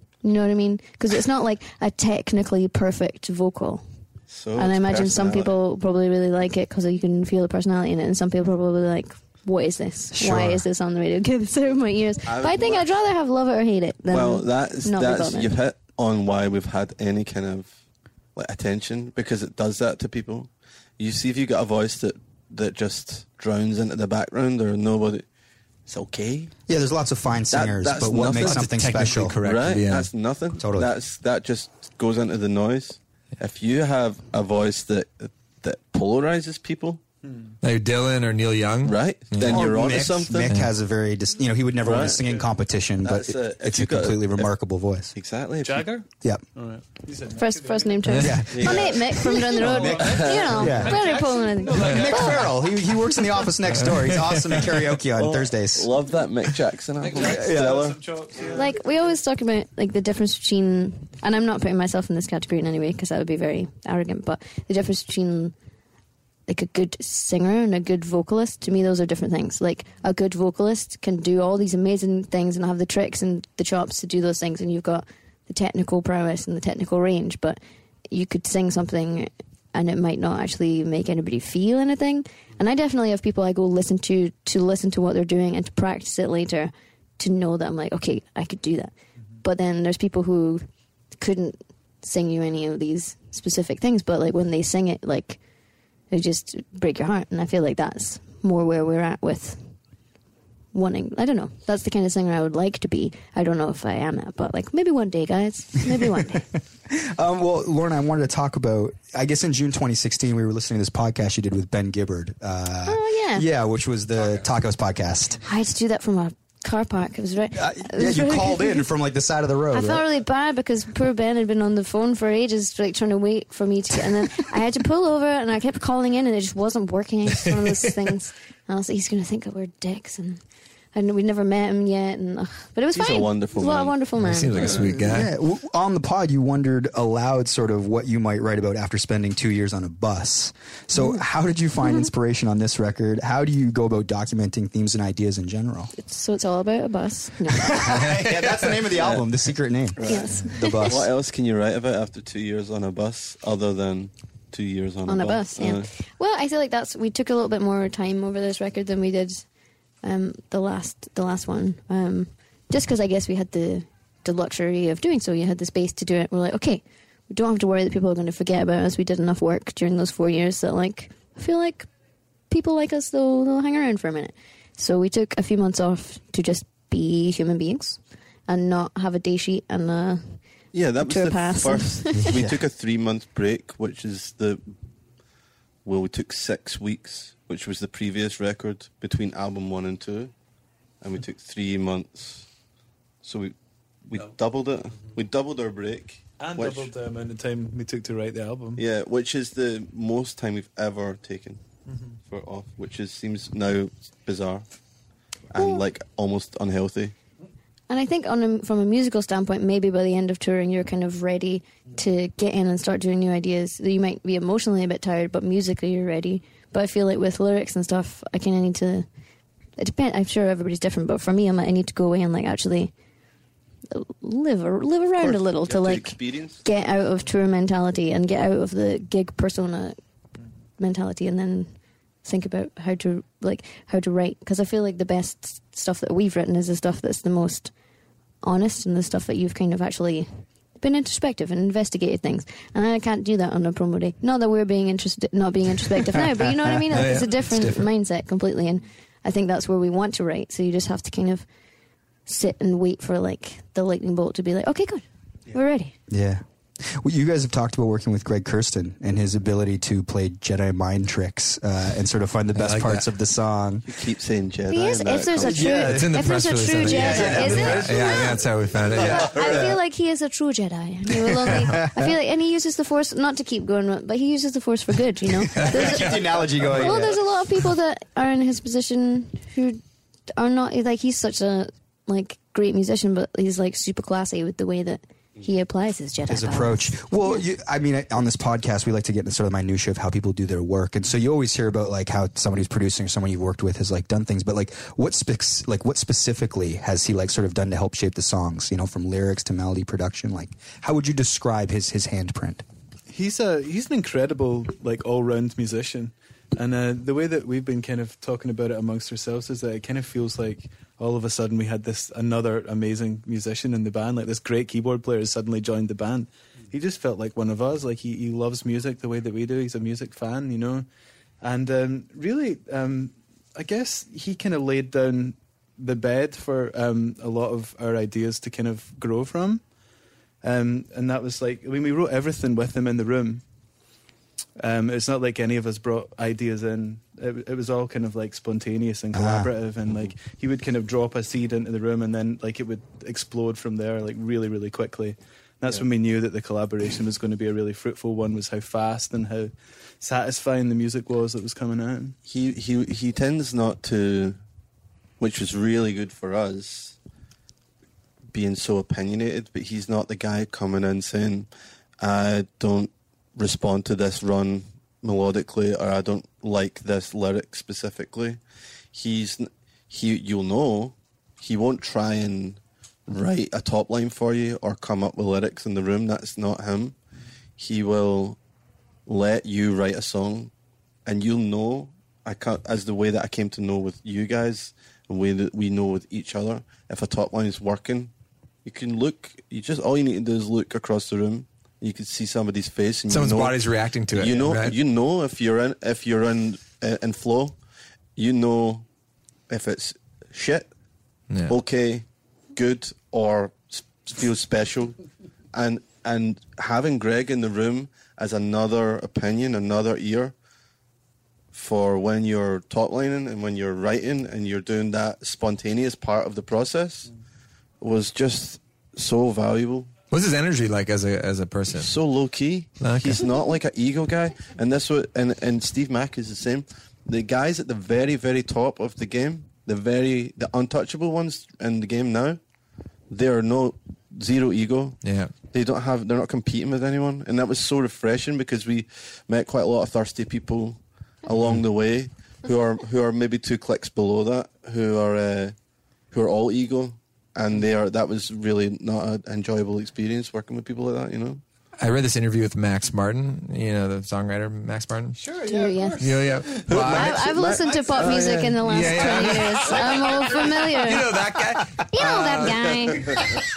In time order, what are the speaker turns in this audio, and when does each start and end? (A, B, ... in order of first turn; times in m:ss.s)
0:00.2-0:03.8 A
0:04.3-0:05.5 B
0:04.6-0:15.5 A
0:10.2-0:10.6 C
0:12.2-0:12.9 B
0:14.1-0:17.7 B
0:18.4-0:25.2 B
0:25.9-0:26.5 B
0:26.7-0:29.4 D
0:27.5-0:37.0 B
0:28.4-0:30.1 C
0:30.6-0:30.9 D
0:37.2-0:37.5 E
0:37.6-0:39.6 C
0:38.8-0:40.6 B
0:39.4-0:45.1 D
0:40.4-0:40.7 C
0:41.8-0:42.2 B
0:42.1-0:42.5 E
0:43.0-0:44.5 B
0:45.1-0:46.0 B
0:45.6-0:48.2 E
0:47.3-0:52.4 A
0:48.2-0:48.8 D
0:48.5-0:51.0 B
0:48.7-0:53.2 E
0:50.1-0:51.0 D
0:51.9-0:55.9 D
0:55.1-0:58.4 B
0:57.0-0:58.8 E
0:57.2-0:57.7 D
0:58.5-1:05.5 A
1:06.5-1:35.4 A
1:36.1-1:39.7 A
1:40.7-1:46.5 A
1:46.9-1:55.4 D
1:52.8-1:53.4 A
1:55.4-1:58.9 A
1:57.5-2:00.0 D
1:59.7-2:10.4 A
2:10.9-2:14.8 A
2:12.9-2:14.0 B
2:14.2-2:15.3 C
2:14.5-2:15.0 B
2:14.9-2:25.9 D
2:25.9-2:28.0 A
2:27.6-2:31.1 D
2:28.9-2:29.2 B
2:30.0-2:30.3 B
2:30.0-2:30.9 A
2:30.8-2:35.9 B
2:35.0-2:39.4 A
2:40.0-2:51.9 A
2:52.5-3:00.4 A
3:00.7-3:04.6 B
3:01.0-3:02.5 A
3:02.2-3:02.6 D
3:05.8-3:10.3 B
3:11.0-3:12.5 B
3:13.2-3:16.9 B
3:16.4-3:18.8 E
3:18.8-3:21.6 B
3:21.9-3:22.2 E
3:22.2-3:24.6 B
3:25.5-3:27.1 B
3:25.6-3:25.8 A
3:27.9-3:39.1 A
3:39.8-3:42.9 A
3:43.9-3:50.0 A
3:45.2-3:46.6 B
3:50.8-3:57.7 A
3:58.4-4:11.4 A
4:06.9-4:07.8 C
4:12.2-4:15.9 A
4:16.1-4:23.8 D
4:22.5-4:23.1 C
4:23.8-4:25.8 B
4:24.7-4:39.8 A
4:25.4-4:26.1 D
4:25.7-4:29.4 C
4:26.8-4:28.0 D
4:27.0-4:27.6 E
4:29.0-4:29.6 B
4:31.6-4:32.1 D
4:35.5-4:37.2 D
4:35.5-4:36.0 C
4:40.3-4:47.4 A
4:46.3-5:02.6 D
5:03.1-5:20.8 E
5:21.4-5:29.6 E
5:30.4-5:33.4 E
5:34.6-5:52.2 E
5:39.1-5:39.5 D
5:52.2-5:54.4 B
5:55.2-5:57.0 B
5:58.3-6:01.5 B
6:02.0-6:08.4 B
6:08.9-6:17.0 B
6:17.6-6:18.4 B
6:19.0-6:20.5 B
6:21.0-6:28.1 B
6:28.6-6:37.6 B
6:33.1-6:34.8 C
6:38.2-6:38.8 B
6:39.5-6:40.7 B
6:41.5-6:45.0 B
6:45.5-6:50.3 B
6:51.5-6:57.1 B
6:57.8-6:59.9 B
7:00.1-7:01.9 C
7:01.7-7:12.4 B
7:02.8-7:03.2 C
7:13.1-7:15.0 B
7:15.0-7:15.3 C
7:15.5-7:25.5 B
7:26.1-7:31.4 B
7:31.8-7:35.2 C
7:35.2-7:36.8 E
7:35.4-7:36.2 A
7:36.0-7:37.2 C
7:36.6-7:38.6 B
7:36.8-7:41.2 A
7:37.7-7:38.2 E
7:38.6-7:39.8 C
7:38.8-7:40.8 E
7:40.4-7:43.3 C
7:41.8-7:43.2 A